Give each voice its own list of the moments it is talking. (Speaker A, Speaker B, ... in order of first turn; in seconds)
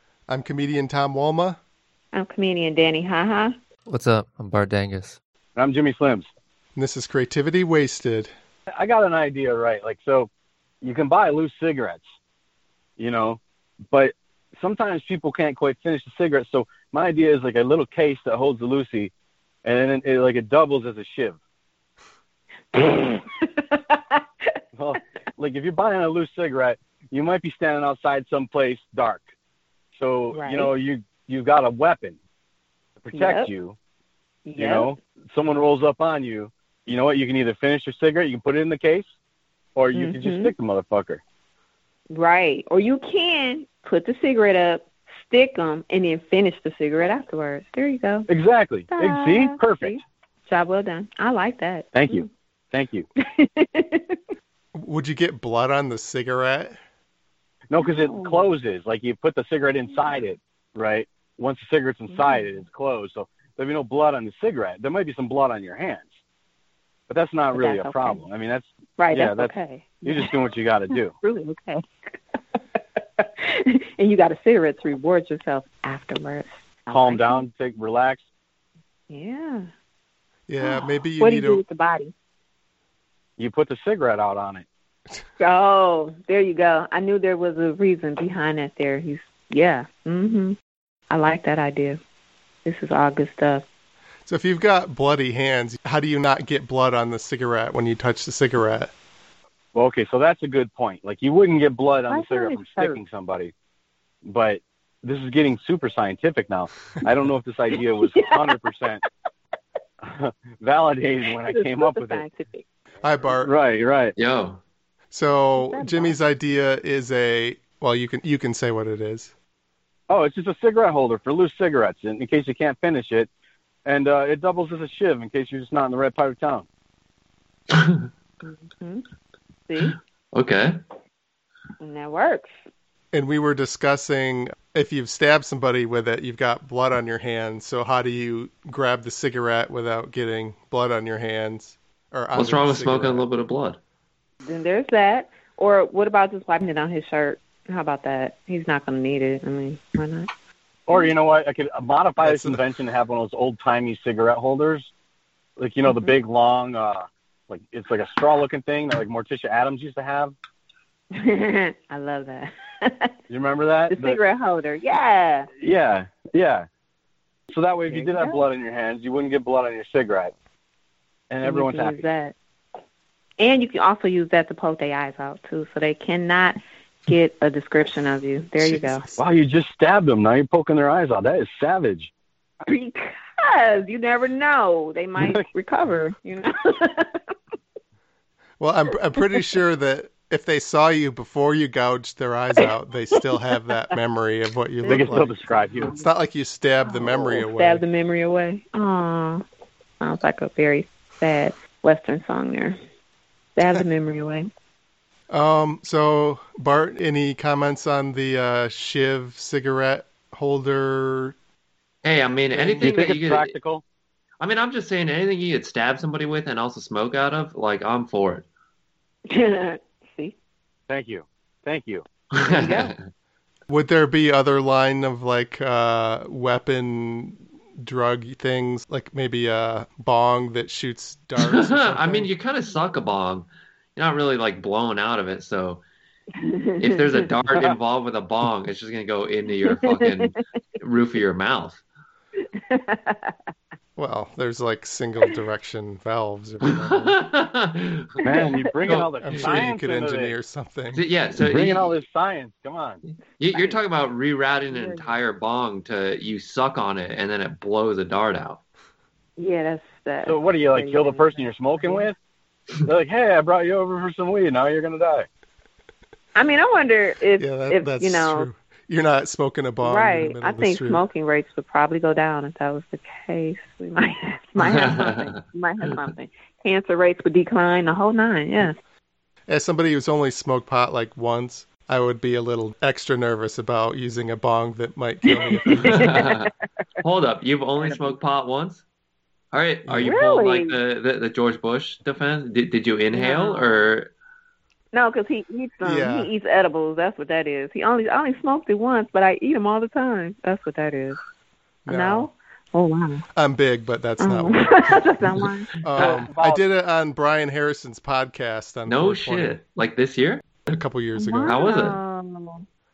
Speaker A: 0.3-1.6, 6.7-8.3, 54.8-56.8, 80.5-81.6, 94.2-98.9, 113.0-113.5, 115.1-119.3, 133.1-143.3, 152.2-152.6, 178.6-179.2, 188.6-197.8, 205.3-211.3, 223.7-232.3, 244.0-247.2, 249.2-251.0, 267.4-271.0, 279.5-286.1, 289.9-290.1, 295.8-296.3, 301.9-302.3, 303.4-305.0, 305.8-309.6, 310.7-311.6
Speaker B: 2.1-3.5, 22.7-24.2, 30.3-30.7, 33.1-33.5, 34.4-34.9, 39.9-40.5, 42.1-48.3, 48.9-52.2, 53.3-54.2, 57.8-58.5, 62.1-62.5, 67.5-68.2, 69.0-70.3, 71.1-71.8, 72.8-77.4, 79.1-79.7, 80.6-82.1, 85.4-90.5, 91.1-92.0, 92.6-93.7, 102.1-103.0, 108.1-108.6, 111.5-112.6, 115.6-116.2, 128.4-129.1, 129.7-129.9, 131.8-132.5, 144.4-150.3, 155.9-156.1, 161.2-163.1, 163.9-165.5, 167.9-168.4, 171.4-172.3, 173.4-179.0, 182.7-187.2, 194.8-196.0, 196.8-199.4, 200.0-202.8, 203.6-204.5, 219.3-220.3, 222.5-222.9, 236.4-237.3, 239.7-240.3, 242.6-243.3, 254.7-255.2, 259.4-262.1, 266.4-268.5, 269.8-278.7, 285.3-286.5, 287.8-288.2, 290.0-290.8, 293.1-293.9, 294.9-301.2, 301.9-303.2, 304.2-305.7, 311.1-312.6
Speaker C: 3.9-5.2, 114.2-114.6, 127.7-128.1, 129.8-130.7, 142.3-143.8, 212.0-213.5, 214.4-218.4, 222.3-223.0, 231.4-235.8, 236.8-241.8, 246.7-248.1, 248.8-249.6, 250.9-251.9, 253.4-258.6, 274.6-275.4, 285.8-286.5, 287.0-288.8, 289.5-294.1, 305.9-306.3, 308.9-310.7, 311.4-312.0
Speaker D: 5.5-6.3, 8.7-10.3, 10.8-12.0, 13.0-19.1, 19.6-21.4, 24.8-29.2, 29.9-32.2, 33.0-33.8, 34.6-39.1, 39.8-41.2, 48.3-50.0, 51.9-53.1, 57.7-66.2, 67.1-71.1, 76.9-78.2, 83.4-84.7, 99.7-103.5, 104.2-109.0, 110.0-112.2, 113.3-114.1, 120.1-123.3, 123.8-126.7, 150.9-154.9, 155.6-160.3, 163.3-164.2, 165.6-166.7, 167.5-170.3, 171.3-172.1, 179.2-182.1, 185.2-185.4, 194.8-195.9, 212.8-213.8, 220.9-222.1, 248.2-250.3, 251.3-253.0, 260.2-262.2, 262.8-265.2, 305.9-306.6